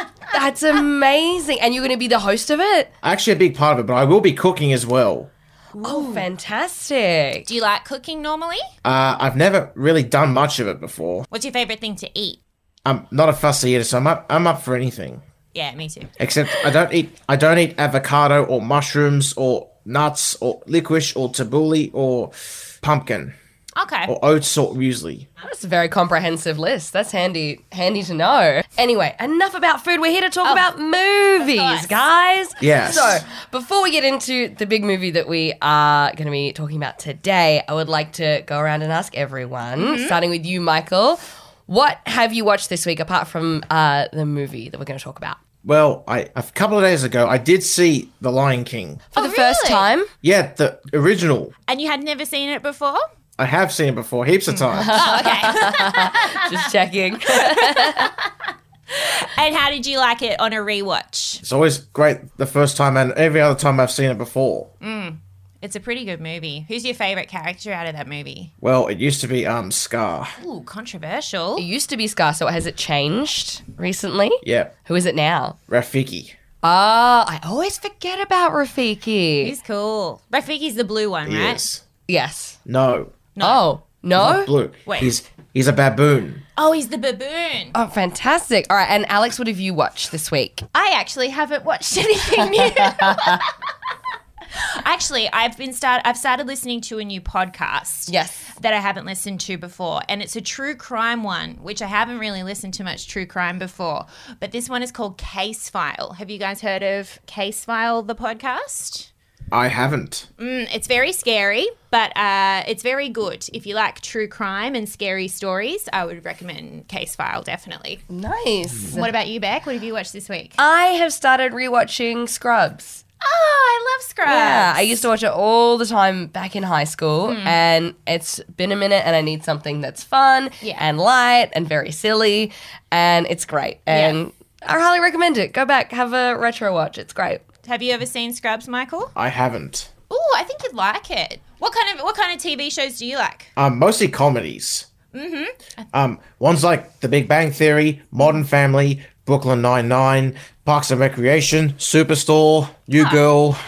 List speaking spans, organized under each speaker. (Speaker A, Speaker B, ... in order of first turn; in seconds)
Speaker A: 0.3-2.9, 5.8-7.5, 25.4-45.4, 49.1-50.1, 54.8-58.1, 71.6-75.6, 76.6-79.5, 82.1-82.6, 83.4-84.5, 87.7-90.7, 92.4-93.4, 98.1-98.5, 118.1-119.1, 120.6-123.0, 124.3-137.4
Speaker B: 3.0-5.3, 8.8-11.3, 12.8-15.2, 16.2-23.4, 24.1-25.3, 32.6-33.2, 45.6-49.0, 50.2-51.5, 53.4-55.0, 61.4-64.7, 68.6-70.3, 74.4-74.7, 75.7-76.3, 81.2-81.8, 82.6-83.2, 84.2-86.4, 109.5-110.3, 139.2-139.9, 143.6-144.9, 145.9-153.6
Speaker C: 5.8-6.2, 7.5-8.7, 11.3-12.4, 15.5-16.1, 23.8-24.1, 31.4-31.9, 39.8-40.1, 49.1-49.9, 51.7-53.0, 54.5-56.5, 57.4-58.2, 58.9-61.4, 64.8-68.5, 70.4-71.7, 79.4-81.6, 83.3-83.7, 84.8-85.1, 86.5-87.7, 90.7-93.5, 94.5-109.1, 110.4-118.0, 118.9-120.6, 123.2-125.0, 127.2-127.5, 133.9-134.2, 137.6-139.1, 140.1-143.5, 145.1-145.8